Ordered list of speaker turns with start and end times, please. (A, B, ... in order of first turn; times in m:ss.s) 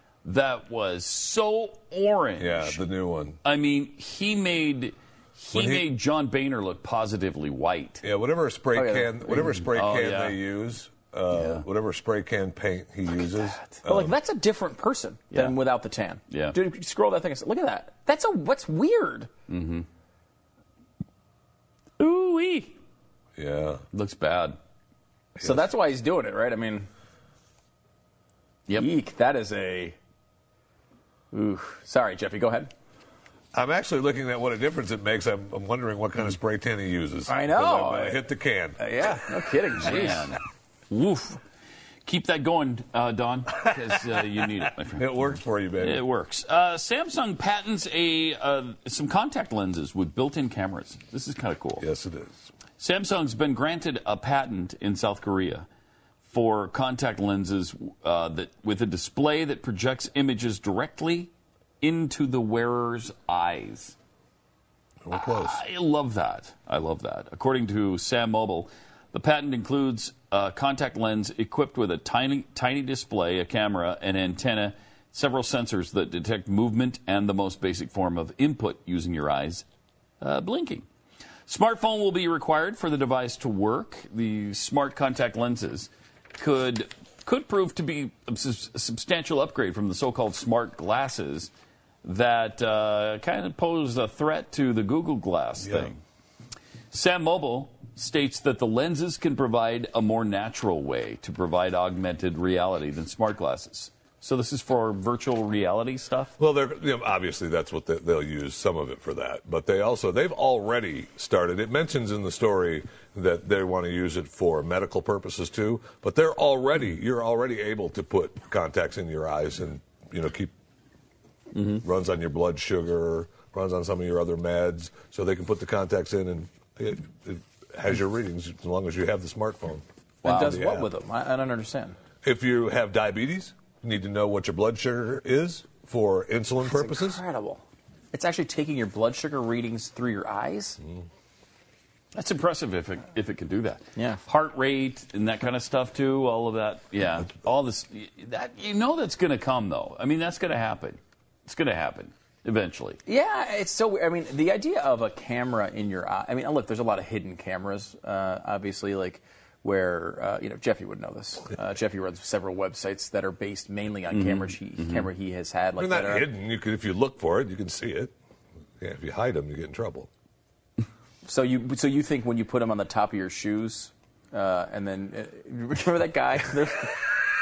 0:00.2-0:02.8 A
0:02.4-0:03.4 B
0:03.4-0:08.0 A
0:05.5-0:05.9 B
0:08.0-0:14.1 B
0:08.7-0:09.6 C
0:09.6-0:10.4 A
0:11.3-0:11.6 A
0:13.8-0:19.3 C
0:16.3-0:16.6 A
0:19.5-0:19.9 A
0:22.0-0:22.8 A
0:23.4-0:23.8 B
0:23.9-0:24.6 A
0:25.4-0:26.9 C
0:28.8-0:30.0 C
0:31.3-0:32.7 C
0:33.5-0:38.8 B
0:37.3-0:38.3 C
0:38.8-0:40.3 C
0:39.8-0:40.4 A
0:40.9-0:41.4 A
0:42.0-0:51.8 A
0:45.0-0:46.0 B
0:51.8-0:52.5 B
0:52.8-0:55.7 A
0:56.2-1:04.0 A
1:05.0-1:05.6 B
1:05.1-1:19.6 A
1:20.2-1:20.9 A
1:21.5-1:31.5 A
1:32.0-1:36.0 A
1:35.6-1:35.9 B
1:36.9-1:46.4 A
1:46.4-2:00.5 B
2:01.6-2:01.8 A
2:01.8-2:10.9 B
2:10.2-2:12.0 C
2:12.2-2:17.2 B
2:16.6-2:20.8 C
2:20.8-2:21.1 B
2:22.2-2:33.0 A
2:24.0-2:24.2 C
2:33.1-2:46.3 C
2:44.1-2:45.1 A
2:45.8-2:48.1 B
2:48.8-2:50.1 B
2:51.2-2:57.2 C